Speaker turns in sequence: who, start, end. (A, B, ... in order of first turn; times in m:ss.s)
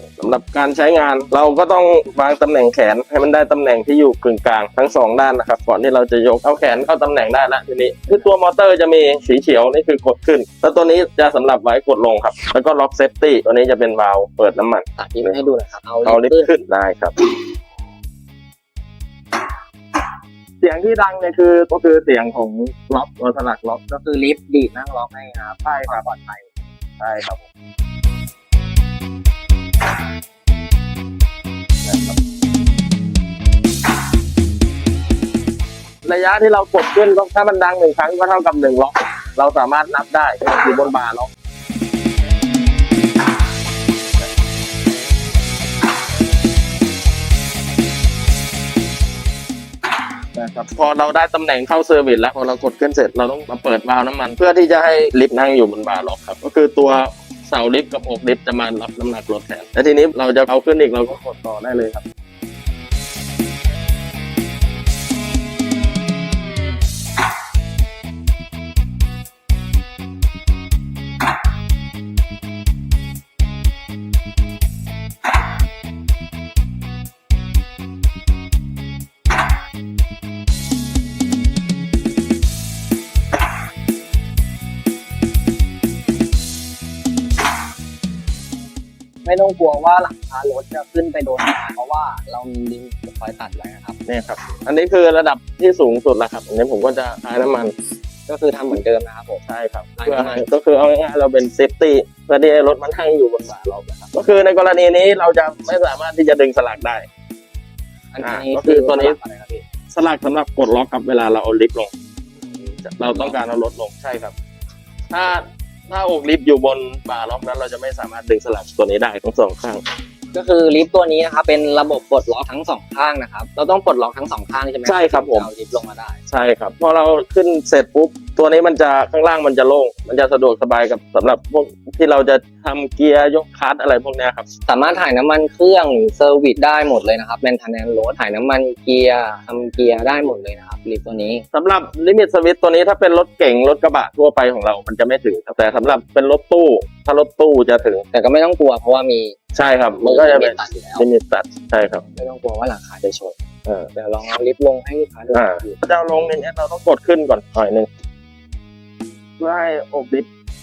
0:00.2-0:15.4 A
0:15.0-0:16.5 B
0:16.0-0:17.2 A
0:20.6-0:23.9 A
0:23.9-0:26.5 B
0:25.6-0:26.0 A
0:27.0-0:27.4 A
0:31.8-0:32.2 A
0:36.0-0:41.3 A
0:50.3-1:02.0 A
1:29.2-1:34.0 B
1:34.1-1:37.7 A
1:38.3-1:39.4 B
1:39.5-1:47.1 A
1:40.0-1:40.5 B
1:48.1-1:49.6 B
1:48.2-1:49.2 A
1:49.9-1:51.9 A
1:52.5-1:53.4 B
1:52.8-1:54.4 A
1:55.1-1:59.8 A
2:00.3-2:06.2 B
2:04.8-2:05.5 A
2:06.3-2:14.5 A
2:14.7-2:21.4 B
2:21.5-2:28.0 A
2:28.1-2:29.4 B
2:29.6-2:32.0 A
2:30.0-2:31.1 B
2:32.1-2:33.4 B
2:33.9-2:35.8 B
2:35.3-2:37.9 A
2:39.4-2:40.3 A